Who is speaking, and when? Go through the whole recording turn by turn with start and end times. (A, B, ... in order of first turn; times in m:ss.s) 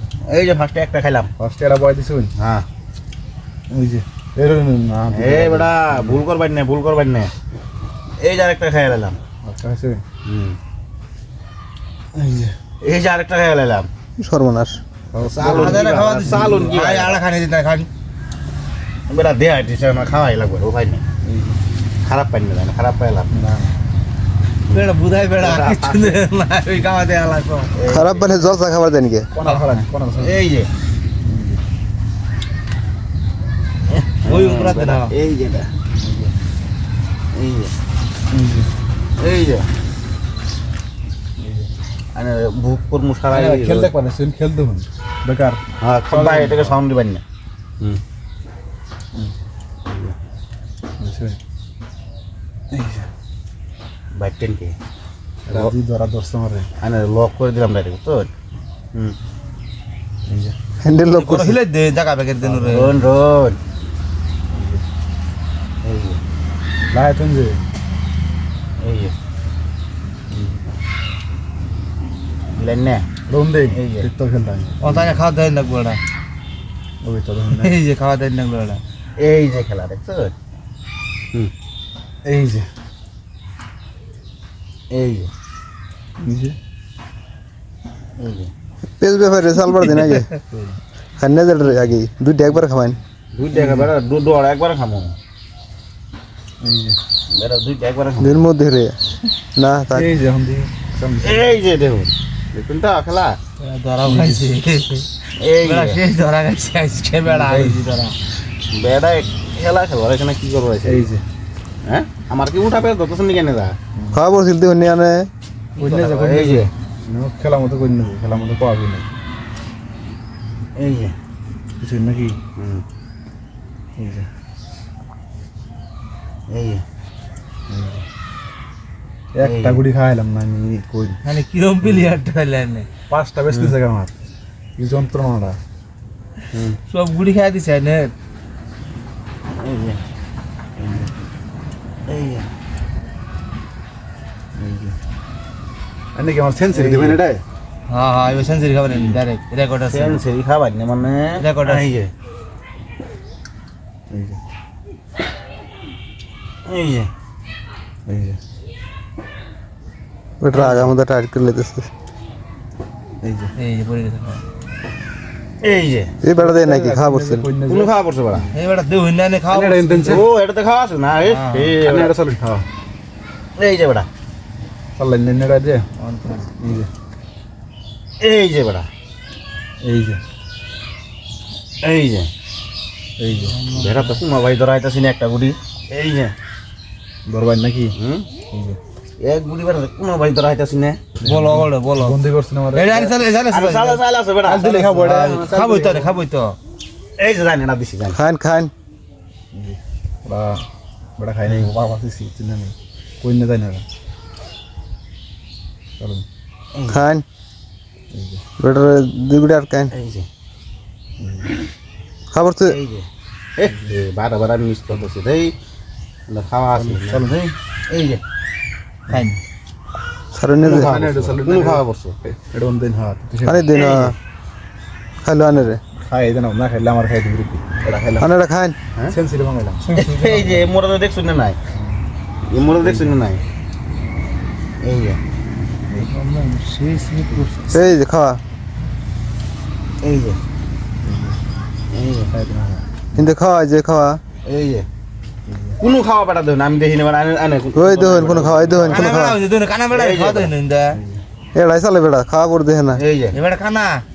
0:00.2-0:01.3 A
0:01.4-0:02.3 B
0:02.4-0:02.7 A
0:03.7-0:06.2 B
0:05.1-0:07.3 A
0:08.2-0:09.2 A
0:09.4-0:10.0 B
0:10.2-0:10.6 A
0:12.1-0:12.5 B
0:12.8-0:13.9 A
0:14.2-0:14.8 C
0:15.1-0:16.9 B
0:15.2-0:17.2 A
0:15.4-0:17.9 D
0:19.1-0:21.0 A
0:21.2-0:21.6 B
0:22.0-0:23.3 A
0:23.3-0:23.8 B
0:24.7-0:27.7 D
0:25.4-0:26.2 A
0:27.7-0:28.4 A
0:27.9-0:29.3 C
0:29.3-0:30.4 B
0:29.4-0:29.7 D
0:30.2-0:30.7 A
0:31.2-0:31.6 B
0:34.0-0:35.7 A
0:34.2-0:35.1 D
0:36.0-0:36.3 B
0:37.3-0:37.7 A
0:38.3-0:38.7 B
0:39.2-0:39.7 A
0:41.4-0:41.7 B
0:42.1-0:43.9 A
0:43.3-0:46.8 B
0:45.8-0:47.2 A
0:49.9-0:50.2 A
0:51.0-0:51.4 B
0:52.7-0:53.1 B
0:54.2-0:54.8 A
0:55.5-0:56.7 B
0:56.8-0:58.3 A
1:00.3-1:00.6 B
1:00.8-1:01.6 C
1:01.1-1:03.0 D
1:02.4-1:02.7 B
1:02.6-1:03.6 A
1:04.5-1:04.8 B
1:05.8-1:06.2 A
1:06.9-1:07.6 B
1:08.8-1:09.1 A
1:10.3-1:10.6 B
1:12.5-1:13.1 A
1:13.3-1:15.2 B
1:13.7-1:14.1 A
1:14.8-1:16.0 D
1:17.0-1:17.8 B
1:17.5-1:18.8 D
1:19.2-1:20.3 A
1:22.2-1:22.7 B
1:24.9-1:25.3 A
1:26.2-1:26.6 B
1:28.2-1:28.5 A
1:29.0-1:30.3 C
1:29.8-1:30.2 D
1:30.5-1:30.8 B
1:31.2-1:33.0 C
1:33.3-1:35.2 A
1:33.5-1:33.9 B
1:36.6-1:37.0 B
1:37.3-1:38.4 A
1:38.2-1:39.0 C
1:39.6-1:40.1 C
1:39.9-1:41.5 B
1:41.2-1:43.4 A
1:43.6-1:45.1 D
1:44.0-1:44.5 B
1:45.4-1:46.0 A
1:45.6-1:48.2 D
1:47.3-1:47.8 B
1:48.7-1:51.1 A
1:50.8-1:51.2 B
1:51.9-1:53.8 A
1:54.1-1:55.3 C
1:55.8-1:59.1 B
1:55.8-1:56.7 A
2:00.8-2:01.2 A
2:01.8-2:02.4 B
2:02.6-2:02.8 A
2:04.0-2:04.3 B
2:06.5-2:06.8 A
2:07.7-2:08.0 B
2:09.3-2:11.2 B
2:09.4-2:09.8 A
2:11.2-2:12.9 D
2:11.8-2:12.1 A
2:13.1-2:14.1 B
2:14.8-2:15.6 B
2:16.5-2:16.8 A
2:16.9-2:18.1 D
2:19.5-2:20.0 A
2:20.8-2:21.1 A
2:22.1-2:22.5 A
2:24.6-2:24.9 B
2:26.2-2:27.4 B
2:26.7-2:27.2 A
2:27.9-2:30.2 D
2:29.9-2:32.1 A
2:31.4-2:32.0 D
2:34.1-2:34.4 B
2:36.7-2:37.1 A
2:38.1-2:38.4 B
2:40.4-2:41.9 C
2:40.5-2:40.9 A
2:43.2-2:43.5 B
2:43.6-2:44.4 D
2:45.6-2:46.1 A
2:46.2-2:47.5 C
2:46.4-2:48.6 B
2:47.7-2:48.5 A
2:48.5-2:50.2 D
2:49.5-2:50.3 B
2:50.0-2:52.1 A
2:51.2-2:51.8 D
2:51.8-2:52.6 B
2:53.6-2:54.1 A
2:55.0-2:55.9 B
2:56.0-2:56.5 D
2:56.6-2:56.9 B
2:58.2-2:58.9 A
2:59.8-3:00.2 B
3:01.8-3:02.3 A
3:03.2-3:03.6 B
3:03.3-3:04.2 D
3:03.8-3:06.3 A
3:07.3-3:08.0 B
3:08.0-3:08.3 A
3:08.5-3:08.8 B
3:09.2-3:11.0 A
3:11.2-3:13.2 B
3:11.2-3:12.2 D
3:12.7-3:14.0 D
3:13.5-3:14.8 A
3:14.4-3:16.2 B
3:14.7-3:16.6 D
3:17.2-3:18.2 A
3:18.1-3:18.7 C
3:19.5-3:20.6 B
3:21.2-3:23.8 B
3:26.0-3:26.2 B
3:26.7-3:27.0 A
3:26.9-3:27.2 C
3:28.1-3:28.4 B
3:28.6-3:29.9 C
3:29.9-3:30.3 A
3:31.2-3:31.5 B
3:32.3-3:32.8 C
3:32.7-3:35.5 A
3:36.3-3:38.2 A
3:36.8-3:37.4 B
3:39.1-3:39.4 B
3:39.1-3:39.4 D
3:40.3-3:41.0 C
3:40.6-3:42.2 A
3:40.6-3:43.6 B
3:43.4-3:44.2 C
3:43.7-3:44.2 A
3:45.2-3:45.8 C
3:46.0-3:48.3 B
3:48.2-3:48.8 C
3:49.1-3:50.6 B
3:49.9-3:50.2 D
3:50.0-3:51.6 A
3:51.8-3:52.0 B
3:52.5-3:53.4 A
3:52.8-3:53.2 B
3:54.8-3:55.2 A
3:55.9-3:57.9 D
3:57.7-3:58.4 C
4:00.0-4:00.4 A
4:01.0-4:01.4 B
4:01.9-4:02.3 A
4:02.3-4:03.3 B
4:03.2-4:04.2 C
4:04.5-4:04.9 A
4:05.5-4:05.8 B
4:05.8-4:09.2 A
4:07.8-4:09.4 C
4:08.7-4:09.0 B
4:08.9-4:11.0 D
4:09.9-4:10.5 A
4:10.9-4:11.2 B
4:11.6-4:13.0 C
4:12.9-4:13.4 A
4:13.3-4:14.0 D